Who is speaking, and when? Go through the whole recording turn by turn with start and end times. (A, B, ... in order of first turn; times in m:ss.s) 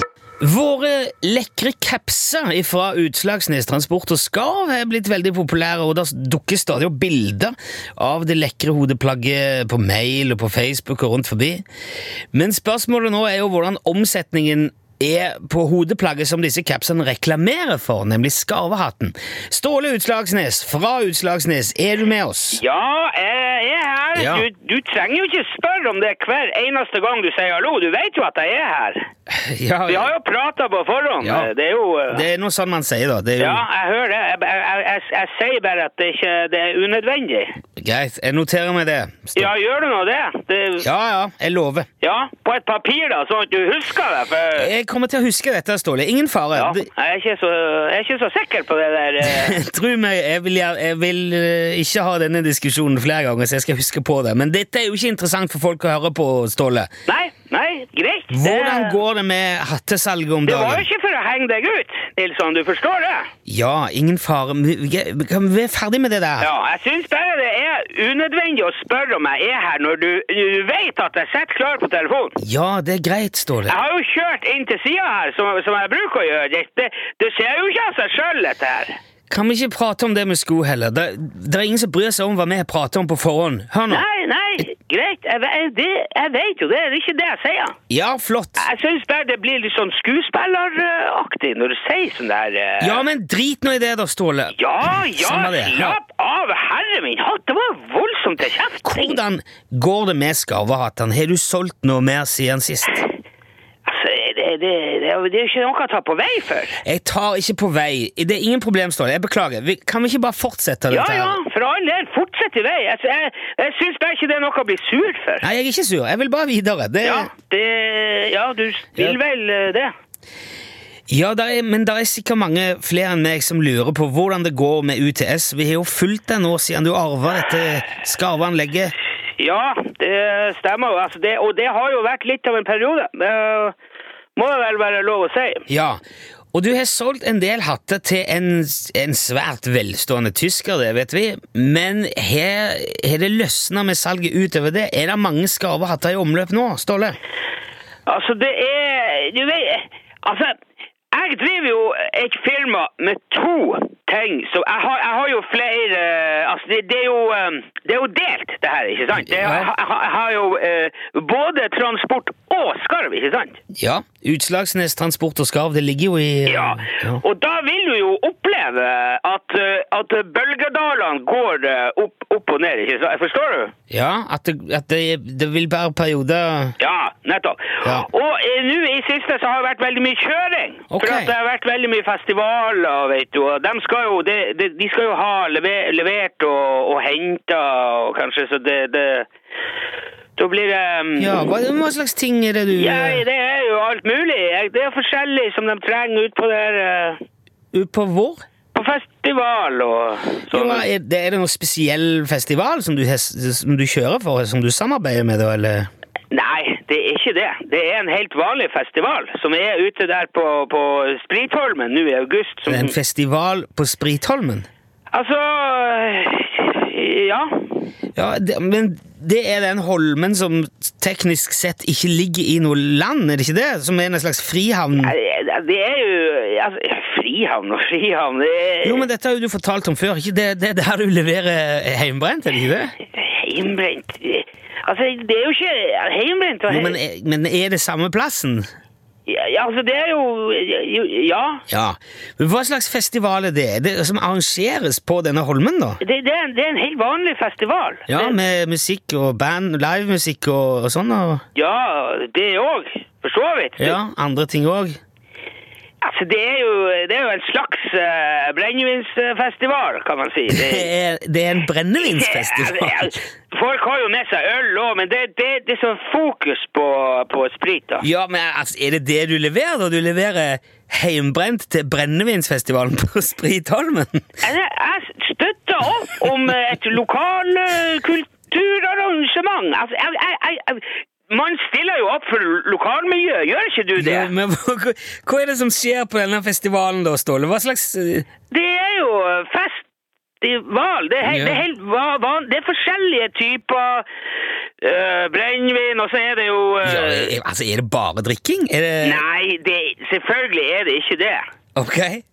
0:00.4-0:11.6 A
0:12.3-0:22.6 A
0:22.5-0:29.1 B
0:24.2-0:24.5 A
0:29.3-0:30.1 A
0:29.9-0:32.3 B
0:31.2-0:31.5 A
0:32.1-0:33.6 A
0:33.4-0:37.6 B
0:37.8-0:39.5 A
0:39.4-0:40.9 B
0:40.8-0:41.9 A
0:42.0-0:44.7 B
0:44.5-0:46.9 A
0:46.5-0:49.6 B
0:49.2-0:56.9 A
0:57.1-0:59.0 B
0:58.3-1:00.8 A
1:00.5-1:03.3 B
1:03.4-1:06.5 A
1:06.4-1:12.4 B
1:12.4-1:13.8 A
1:13.7-1:19.0 B
1:19.3-1:24.0 A
1:23.9-1:27.8 B
1:27.9-1:28.7 A
1:28.6-1:33.0 B
1:32.8-1:36.0 A
1:34.6-1:39.2 B
1:38.8-1:43.0 A
1:43.9-1:46.8 B
1:46.8-1:51.4 A
1:50.9-1:55.5 B
1:55.4-1:57.3 A
1:57.0-1:59.9 B
2:01.1-2:08.9 A
2:09.4-2:13.8 B
2:14.4-2:15.7 B
2:15.7-2:16.0 A
2:16.5-2:27.2 A
2:28.1-2:30.6 B
2:31.1-2:43.6 B
2:39.3-2:39.7 A
2:43.7-2:47.2 A
2:46.5-2:53.7 B
2:53.9-2:56.8 A
2:56.8-3:09.3 B
3:00.9-3:01.3 A
3:10.4-3:11.5 B
3:11.2-3:13.2 A
3:12.7-3:17.2 B
3:17.7-3:18.4 A
3:18.7-3:20.9 B
3:20.5-3:25.9 A
3:26.3-3:33.0 B
3:32.7-3:34.7 A
3:35.1-3:37.7 B
3:38.2-3:45.1 A
3:45.0-3:49.1 B
3:48.8-3:53.0 A
3:53.1-3:57.0 B
3:56.7-3:58.7 A
3:59.3-4:01.6 B
4:01.7-4:06.0 A
4:06.0-4:08.4 B
4:08.1-4:11.4 A
4:11.6-4:14.0 B
4:13.8-4:15.0 A
4:16.0-4:20.9 B
4:20.5-4:23.2 A
4:22.0-4:28.1 B
4:28.0-4:34.2 A
4:34.4-4:44.3 B
4:44.0-4:48.3 A
4:48.5-4:49.8 B
4:50.4-4:54.1 B
4:51.2-4:51.6 A
4:54.8-4:57.4 B
4:56.8-4:59.2 A
4:59.0-5:01.4 B
5:01.8-5:02.2 A